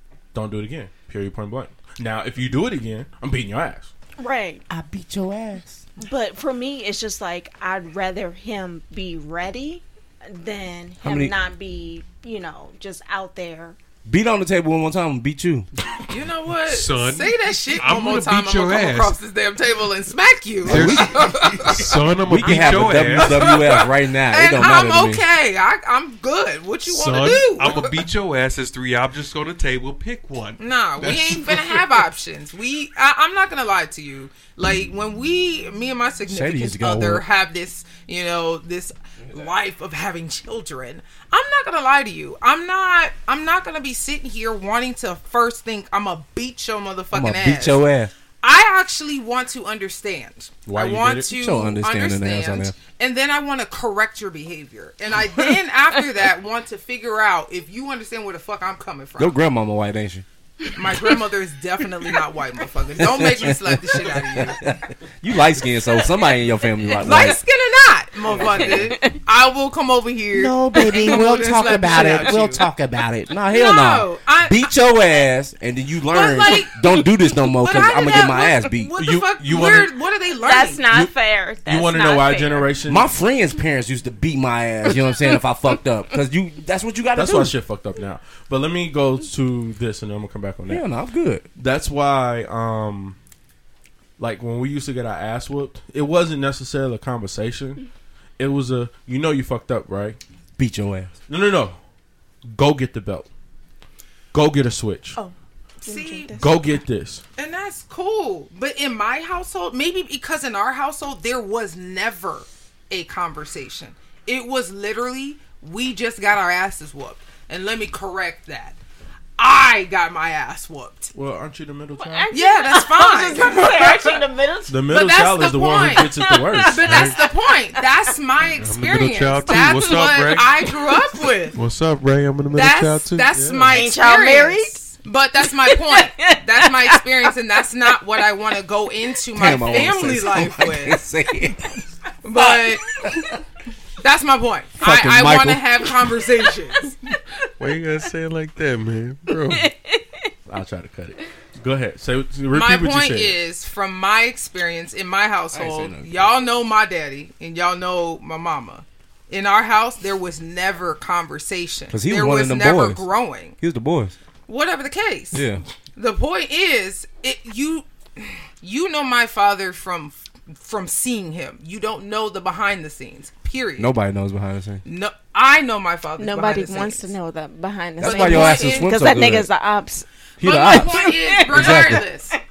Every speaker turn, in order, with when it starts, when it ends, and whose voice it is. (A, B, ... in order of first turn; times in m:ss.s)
0:00.3-0:03.9 A
0:04.2-0:04.6 B
0:04.7-0:05.8 C
0:06.0-0:13.8 B
0:11.0-0:11.3 C
0:14.1-0:15.7 C
0:16.1-0:22.0 D
0:16.7-0:19.1 E
0:20.7-0:21.2 C
0:20.7-0:23.6 E
0:22.3-0:25.2 C
0:23.2-0:28.0 D
0:26.9-0:31.8 E
0:30.6-0:47.8 D
0:36.3-0:37.2 C
0:47.1-0:48.1 C
0:48.4-0:59.4 D
0:50.6-0:51.3 A
0:51.3-0:52.8 C
0:59.2-1:00.2 C
1:00.8-1:04.6 D
1:03.0-1:07.4 C
1:07.0-1:12.6 D
1:08.4-1:08.6 C
1:08.5-1:09.2 B
1:10.3-1:19.0 C
1:10.8-1:12.4 B
1:13.5-1:14.7 D
1:16.1-1:16.7 D
1:17.6-1:20.8 D
1:19.0-1:19.9 A
1:20.4-1:22.7 B
1:21.7-1:23.1 A
1:22.9-1:27.6 C
1:27.2-1:30.8 A
1:30.7-1:31.4 C
1:31.6-1:33.2 A
1:34.2-1:37.8 A
1:38.4-1:40.2 A
1:40.6-1:41.1 C
1:41.3-1:41.8 A
1:42.5-1:43.3 A
1:44.3-1:45.2 A
1:45.2-1:46.8 B
1:45.8-1:46.4 D
1:46.3-1:47.2 A
1:47.4-1:58.8 D
1:59.4-2:01.1 D
2:01.1-2:02.3 A
2:02.0-2:04.8 B
2:02.3-2:04.2 D
2:04.7-2:07.0 A
2:04.9-2:11.6 D
2:06.2-2:08.0 B
2:06.8-2:07.1 E
2:08.5-2:10.5 E
2:09.5-2:10.1 B
2:11.5-2:13.3 E
2:12.5-2:21.0 D
2:13.3-2:13.9 A
2:13.7-2:14.9 B
2:15.5-2:17.3 B
2:19.3-2:21.7 C
2:22.2-2:22.9 D
2:22.4-2:23.3 B
2:24.0-2:26.9 D
2:24.8-2:25.6 C
2:27.6-2:29.7 E
2:29.5-2:30.3 B
2:30.5-2:33.4 A
2:32.5-2:43.6 D
2:35.5-2:36.3 C
2:41.9-2:43.1 C
2:43.6-2:44.2 C
2:44.5-2:45.4 D
2:45.3-2:45.6 C
2:46.0-2:53.9 D
2:53.8-2:54.8 C
2:54.8-2:57.2 D
2:56.2-3:00.1 B
2:58.0-2:59.5 C
2:58.0-2:59.0 D
3:00.4-3:01.0 C
3:00.4-3:02.4 D
3:00.7-3:02.4 B
3:01.5-3:02.0 C